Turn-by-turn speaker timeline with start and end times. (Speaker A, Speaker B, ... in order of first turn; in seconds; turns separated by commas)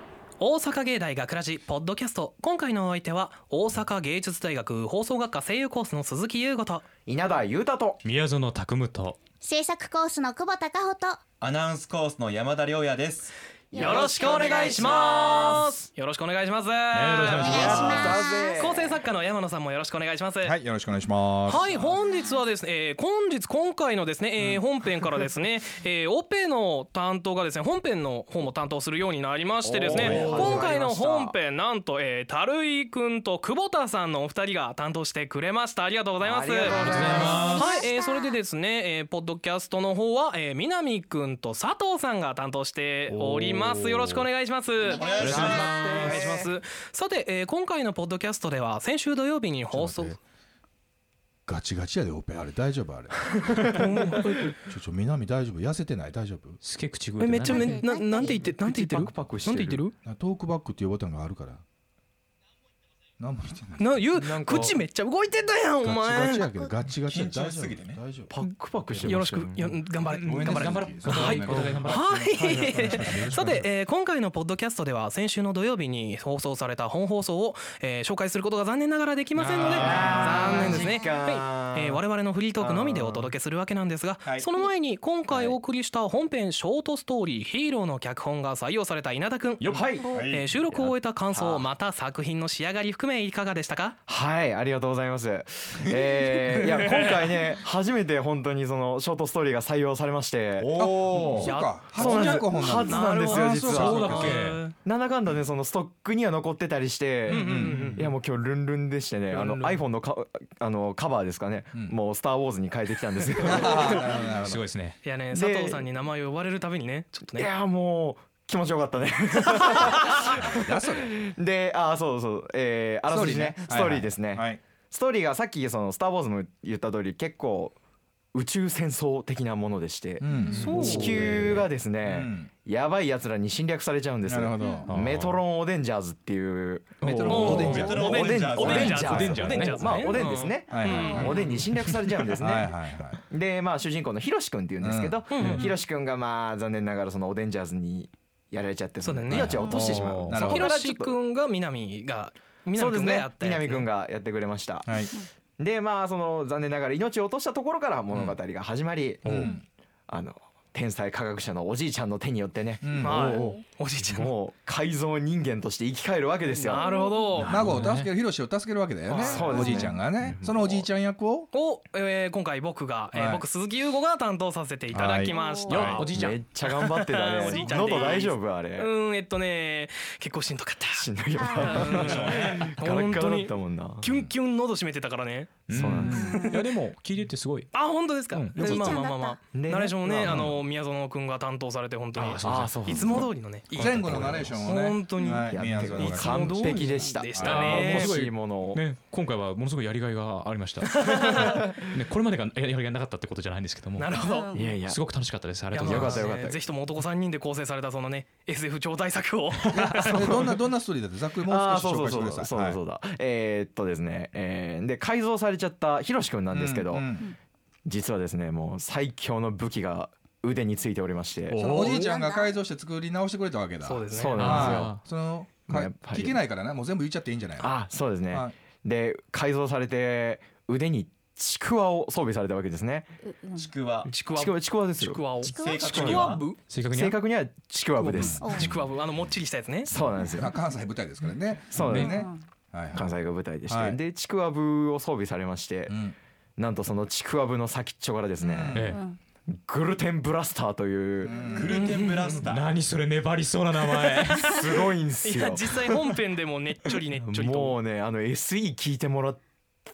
Speaker A: 0.4-6.8, Speaker B: 7.0-8.0, Speaker C: 8.0-9.2, Speaker D: 9.4-11.2, Speaker E: 11.4-13.3, Speaker B: 13.7-15.8, Speaker D: 13.7-15.2, Speaker A: 13.7-20.6, Speaker C: 16.9-17.4, Speaker B: 17.2-19.0, Speaker E: 17.3-18.2, Speaker D: 17.4-18.7, Speaker F: 20.4-21.7, Speaker A: 21.5-50.2, Speaker D: 22.0-22.4, Speaker B: 29.6-31.3, Speaker E: 29.9-30.7, Speaker B: 36.2-37.6, Speaker C: 36.7-37.5, Speaker D: 36.9-38.4, Speaker E: 37.2-37.6, Speaker C: 43.1-44.2, Speaker E: 44.8-46.2, Speaker B: 45.1-46.5, Speaker F: 49.7-50.2, Speaker F: 51.5-53.8, Speaker A: 53.6-54.6, Speaker F: 54.6-56.6, Speaker C: 56.6-57.8, Speaker A: 57.2-59.9, Speaker D: 57.5-58.5, Speaker B: 58.1-59.8, Speaker F: 60.0-61.6, Speaker F: 63.2-64.1, Speaker A: 63.8-66.5, Speaker B: 64.2-64.8, Speaker F: 65.8-68.3, Speaker E: 67.0-68.0, Speaker B: 68.3-69.8, Speaker A: 69.0-94.0, Speaker C: 70.0-73.0, Speaker F: 70.1-73.7, Speaker B: 71.1-71.7, Speaker B: 72.4-72.9, Speaker C: 79.3-80.8, Speaker B: 79.6-82.0, Speaker B: 82.6-83.3, Speaker F: 84.2-84.5, Speaker B: 85.3-85.6, Speaker C: 89.6-89.9, Speaker B: 89.7-91.7, Speaker E: 90.0-90.5, Speaker B: 94.1-114.3, Speaker F: 95.8-96.6, Speaker A: 96.7-97.1, Speaker C: 100.6-101.3, Speaker F: 100.7-104.5, Speaker A: 101.4-104.7, Speaker C: 103.8-104.6, Speaker F: 107.3-108.0, Speaker A: 107.3-108.1, Speaker A: 109.3-109.8, Speaker F: 113.4-114.6, Speaker C: 114.4-115.0, Speaker A: 115.0-117.5, Speaker B: 115.3-115.8, Speaker B: 117.3-120.5, Speaker F: 120.1-121.2, Speaker B: 121.1-127.7, Speaker F: 123.1-124.6, Speaker B: 128.3-142.8, Speaker F: 130.2-132.5, Speaker A: 130.5-131.4, Speaker C: 131.2-131.6, Speaker F: 134.2-135.1, Speaker C: 134.8-135.4, Speaker F: 137.0-139.2, Speaker A: 137.2-141.4, Speaker E: 137.3-139.3, Speaker C: 138.6-140.2, Speaker F: 140.7-143.2, Speaker D: 140.9-141.3, Speaker B: 143.3-151.2, Speaker F: 144.8-145.3, Speaker A: 145.3-145.6, Speaker C: 145.3-145.7, Speaker A: 149.0-153.9, Speaker F: 149.3-150.7, Speaker C: 149.3-150.5, Speaker B: 152.7-155.0, Speaker F: 154.8-155.2, Speaker B: 155.6-159.6, Speaker F: 158.1-158.4, Speaker C: 159.2-159.5, Speaker F: 159.2-159.6, Speaker B: 160.1-166.9, Speaker F: 162.8-163.4, Speaker A: 163.0-164.3, Speaker A: 166.6-167.5, Speaker D: 166.8-167.3, Speaker C: 167.3-168.1, Speaker F: 167.4-171.5, Speaker B: 169.1-170.9, Speaker A: 169.1-169.8, Speaker A: 171.5-185.5, Speaker F: 173.1-173.4, Speaker F: 174.9-176.1, Speaker D: 175.3-175.9, Speaker C: 175.7-176.4, Speaker B: 176.0-178.9, Speaker B: 180.9-184.3, Speaker D: 181.4-181.8, Speaker E: 181.7-182.7, Speaker C: 185.7-188.7, Speaker B: 185.7-186.5, Speaker A: 186.1-186.6, Speaker A: 187.7-198.1, Speaker B: 188.6-190.5, Speaker D: 188.6-189.4, Speaker C: 192.2-194.7, Speaker B: 192.4-193.3, Speaker F: 193.7-197.9, Speaker B: 195.4-198.8, Speaker C: 197.4-204.2, Speaker A: 200.9-201.5, Speaker A: 203.9-204.5, Speaker D: 204.1-204.7, Speaker B: 204.5-205.0, Speaker C: 204.8-206.3, Speaker A: 205.7-210.3, Speaker B: 205.8-206.6, Speaker F: 209.9-212.8, Speaker B: 210.0-210.7, Speaker B: 211.4-217.2, Speaker F: 216.5-217.3, Speaker B: 217.8-221.9, Speaker C: 221.5-221.9, Speaker A: 221.6-222.2, Speaker F: 221.7-227.8, Speaker D: 221.9-222.6, Speaker A: 223.8-224.6, Speaker B: 224.1-225.0, Speaker C: 224.2-225.0, Speaker B: 225.7-226.4, Speaker B: 227.6-233.1, Speaker F: 228.3-228.5, Speaker D: 233.3-233.6, Speaker E: 233.5-234.1, Speaker A: 234.1-236.6, Speaker B: 234.3-235.2, Speaker E: 235.4-236.5, Speaker D: 235.5-236.0, Speaker C: 236.7-237.2, Speaker B: 236.9-238.6, Speaker F: 238.0-238.6, Speaker A: 238.2-239.9, Speaker D: 238.4-238.7, Speaker B: 239.8-240.6, Speaker F: 240.2-243.1, Speaker B: 241.7-242.3, Speaker C: 241.8-242.2, Speaker B: 242.9-246.0, Speaker F: 243.7-244.0, Speaker F: 245.9-246.2, Speaker B: 246.6-248.9, Speaker F: 248.4-249.0, Speaker C: 248.7-249.0, Speaker B: 249.5-251.8, Speaker F: 251.2-252.0, Speaker E: 251.5-252.7, Speaker A: 251.7-252.4, Speaker C: 252.4-254.6, Speaker A: 253.9-257.8, Speaker B: 254.4-256.0, Speaker B: 257.2-259.4